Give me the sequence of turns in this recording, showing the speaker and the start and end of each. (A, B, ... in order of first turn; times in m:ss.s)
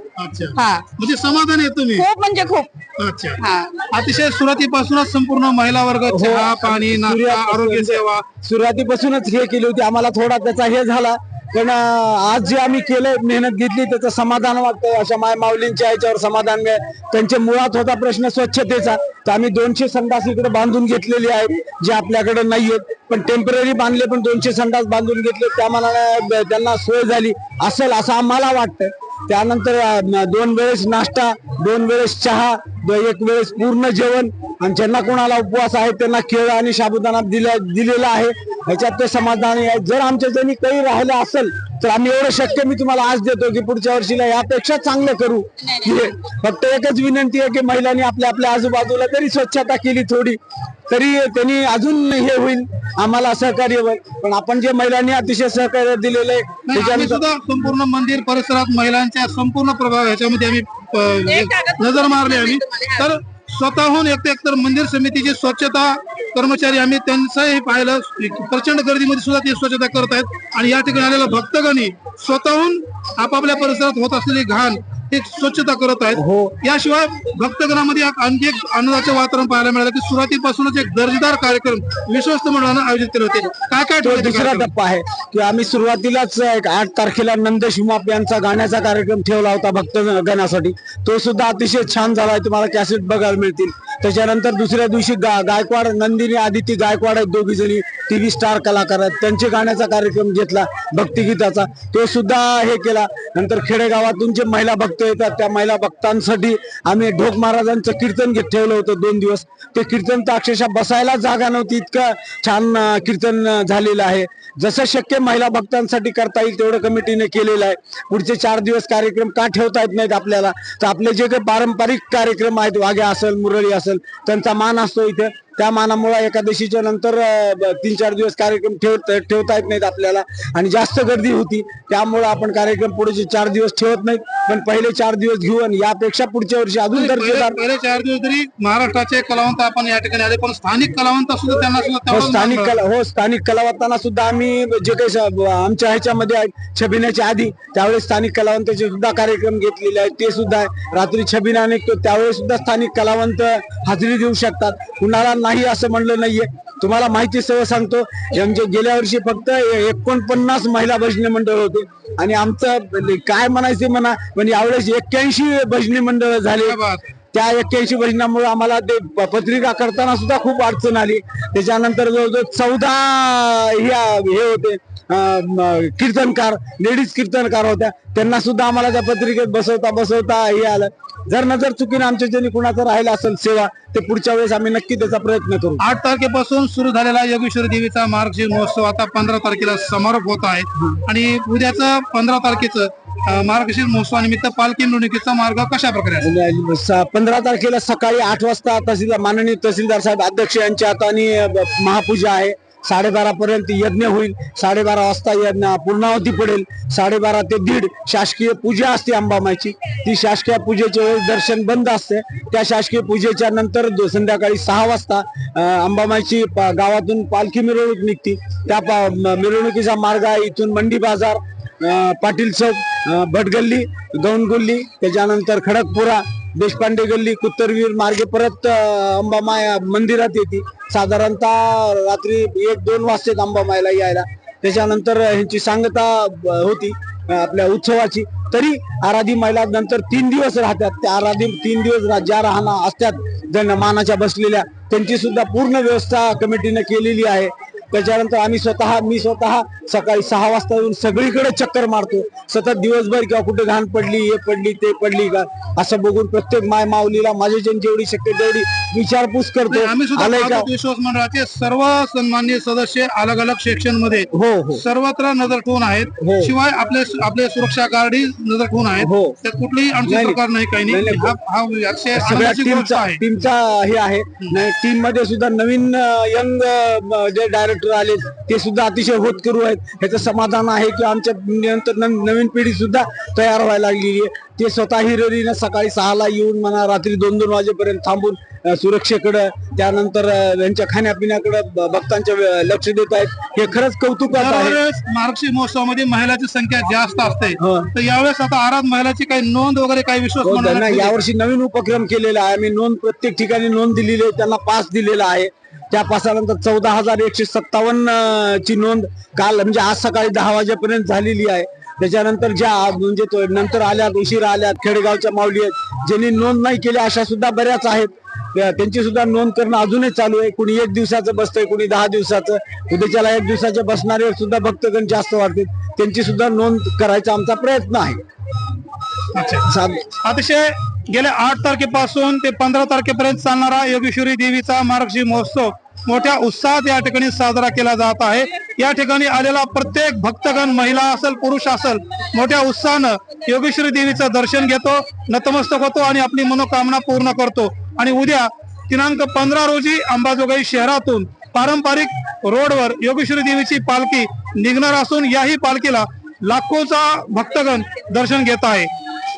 0:00.2-0:02.0 A
0:00.5-0:00.9 B
0:01.9-0:02.7 B
0:03.0-0:03.4 A
0:03.4-0:03.8 B
0:03.9-0:08.2 A
0:06.1-0:57.2 C
0:56.7-1:24.7 A
1:01.3-1:03.1 B
1:16.1-1:16.6 C
1:24.0-2:17.6 C
2:16.9-2:22.7 A
2:22.1-2:46.8 C
2:46.6-2:47.1 A
2:47.3-3:05.8 C
3:05.8-3:16.3 A
3:16.2-4:20.7 C
4:19.7-4:24.3 A
4:24.3-4:24.8 C
4:24.8-4:33.2 A
4:26.2-4:26.5 C
4:29.0-4:29.4 C
4:30.0-4:31.4 C
4:32.1-4:54.8 C
4:54.3-5:01.1 A
4:57.6-4:57.9 C
5:00.4-5:28.2 C
5:29.4-5:29.7 A
5:29.6-5:30.1 C
5:30.2-5:58.9 A